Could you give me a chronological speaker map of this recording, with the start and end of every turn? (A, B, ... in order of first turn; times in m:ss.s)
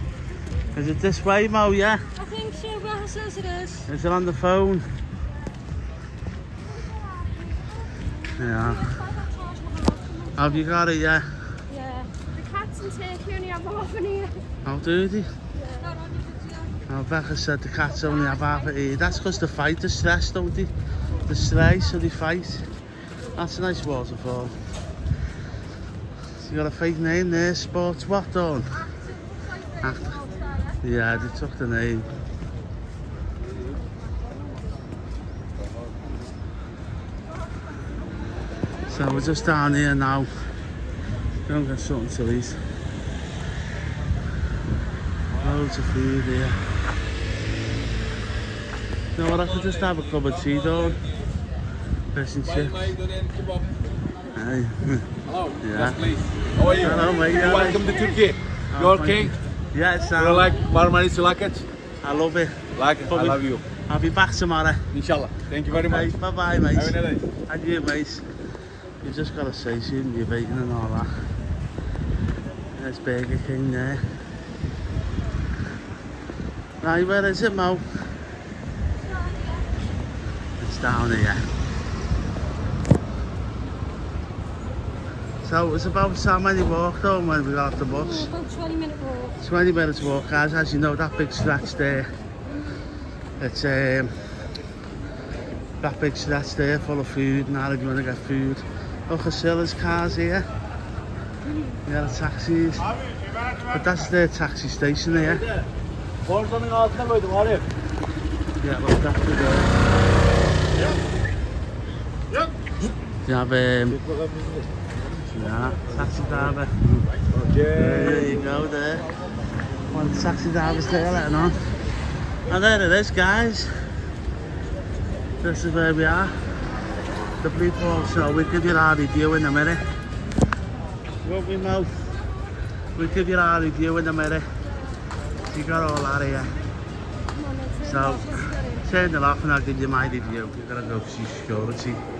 0:00.7-0:02.0 A
0:02.2-0:03.9 B
0:03.9-0:04.9 A
0:08.4-0:10.7 B
0:08.4-0:08.9 A
0:10.4-0:11.3 A
0:11.7-0:12.1 B
0:12.3-0:14.4 C
0:14.6-0:15.3 A
0:15.6-0:15.9 C
0:15.7-0:16.8 B
0:16.9-0:20.7 A
0:21.2-0:22.7 A
0:23.3-0:24.6 A
0:26.4-0:28.8 A
0:29.8-0:30.7 B
0:29.8-0:30.2 A
0:30.8-0:32.1 A
0:38.9-0:40.3 A
0:41.4-0:42.6 A
0:45.4-0:46.6 A
0:49.1-0:51.0 A
0:52.1-0:53.0 A
0:53.0-0:53.6 D
0:54.3-0:56.0 A
0:55.3-0:59.4 D
0:56.7-0:57.9 A
0:58.7-1:00.5 A
1:00.1-1:01.6 D
1:02.0-1:04.8 A
1:02.8-1:03.6 D
1:04.9-1:06.1 D
1:05.8-1:08.2 A
1:06.7-1:07.2 D
1:09.0-1:11.1 A
1:12.8-1:14.0 A
1:16.8-1:17.8 A
1:19.2-1:19.7 B
1:20.6-1:21.4 A
1:25.4-1:28.3 A
1:27.9-1:29.4 B
1:29.4-1:32.1 A
1:33.4-1:34.1 A
1:35.8-1:40.5 A
1:41.8-1:42.9 A
1:43.7-1:45.4 A
1:46.2-1:47.6 D
1:48.6-1:49.7 A
1:53.2-1:54.0 A
1:53.9-1:54.6 D
1:55.3-1:57.1 A
1:57.3-1:58.5 D
1:57.7-1:59.0 A
1:59.9-2:01.6 A
2:01.0-2:01.5 B
2:02.5-2:03.8 A
2:05.4-2:06.4 A
2:07.4-2:09.8 A
2:11.2-2:12.1 A
2:13.0-2:14.5 A
2:15.5-2:16.6 A
2:17.3-2:18.9 B
2:17.8-2:22.0 A